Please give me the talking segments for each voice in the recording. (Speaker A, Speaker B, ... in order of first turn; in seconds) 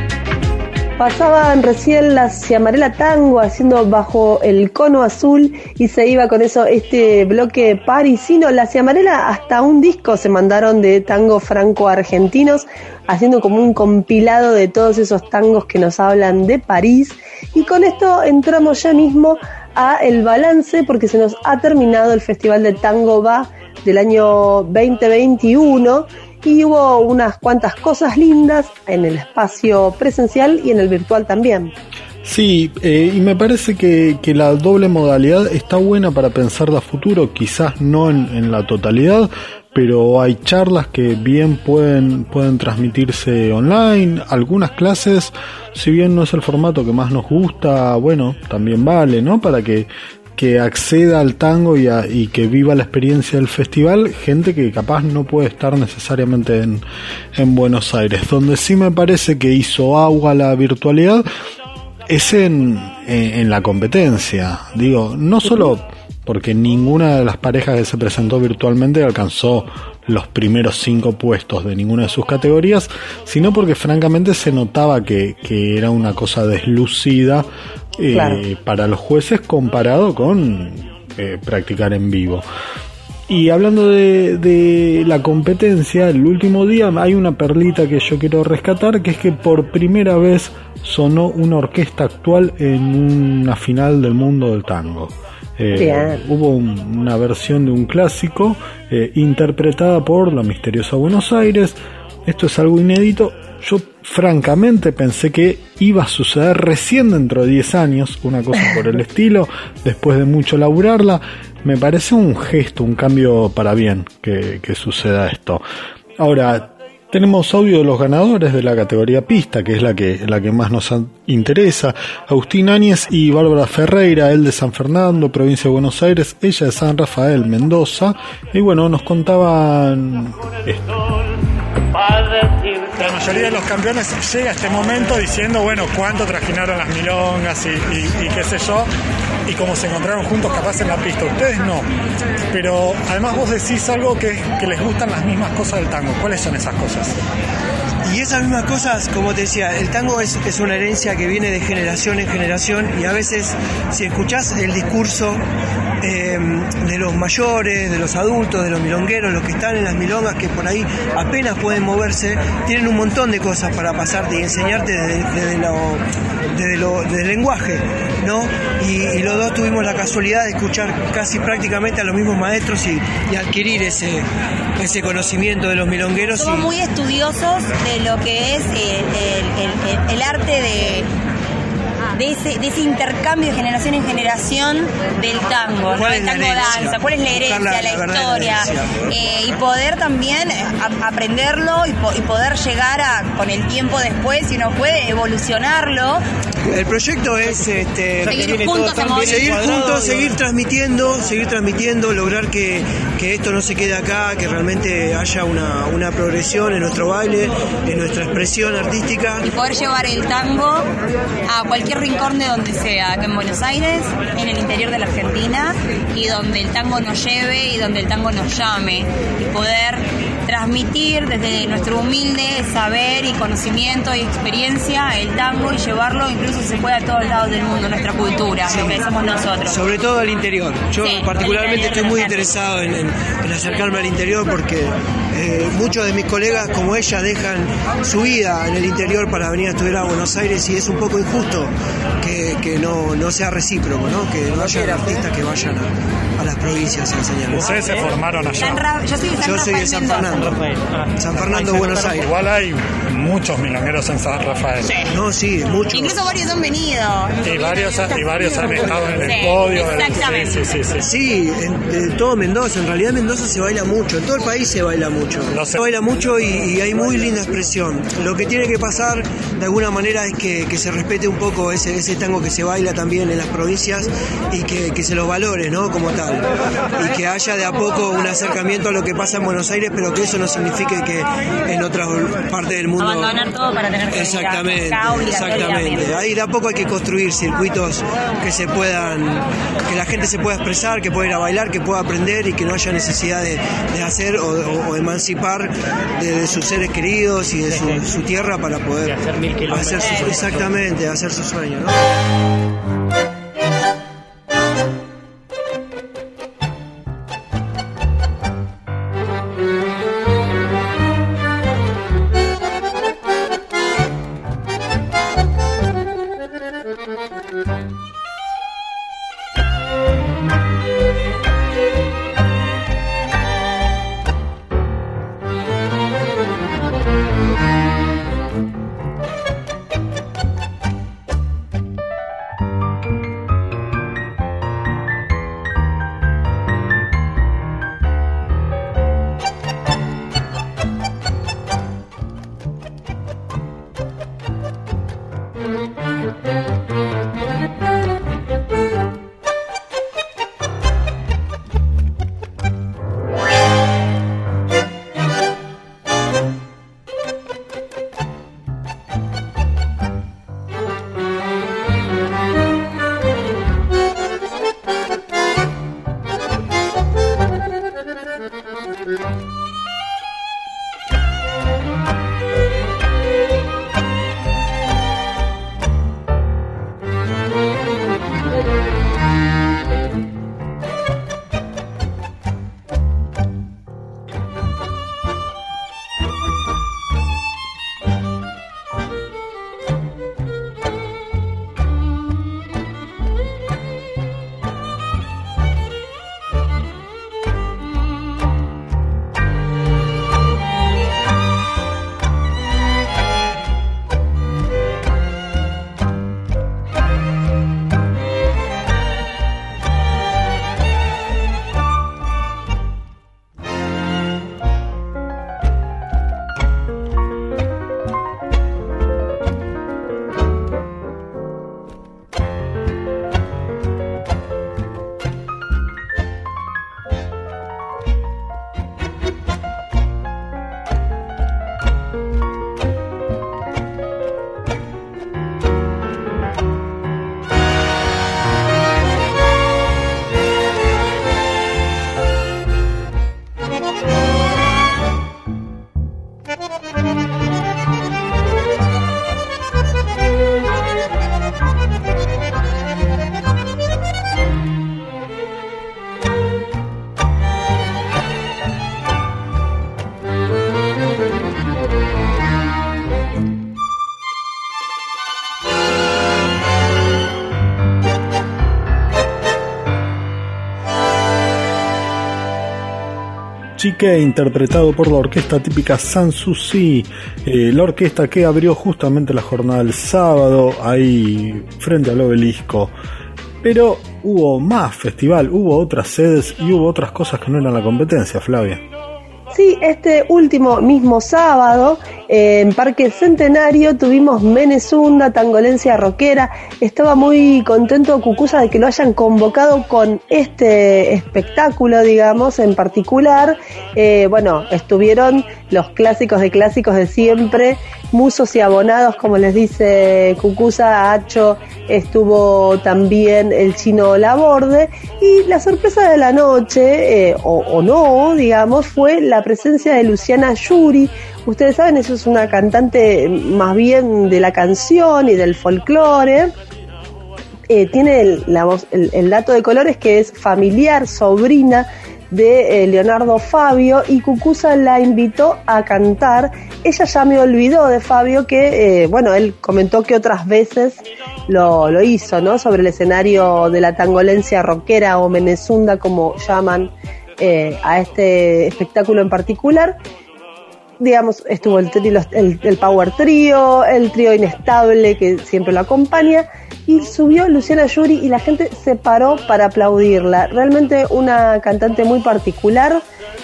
Speaker A: 1.0-31.7, 78.1-78.4, 95.7-96.2, 489.5-526.5, 527.7-550.0, 551.0-563.0
Speaker B: 32.2-56.8, 57.3-61.2, 62.1-82.4, 83.3-115.6, 116.2-131.0, 473.8-482.9, 483.6-488.8
Speaker C: 132.8-138.9, 139.5-141.8, 142.5-147.2, 247.5-248.8, 251.5-255.0, 257.4-261.1, 265.5-265.8
Speaker D: 148.0-155.4, 156.0-174.2, 174.8-176.7, 185.9-189.0, 196.7-209.4, 228.6-229.1, 229.7-247.8, 249.4-250.6, 251.1-252.3, 255.1-256.2, 261.0-276.4, 277.0-283.4, 284.1-302.0
Speaker E: 176.4-181.1, 182.1-196.2, 198.2-200.3, 209.4-210.9, 211.4-229.8, 231.0-232.5, 244.8-245.3, 247.9-250.6, 254.8-255.1, 255.9-260.8, 283.0-286.2, 299.8-300.4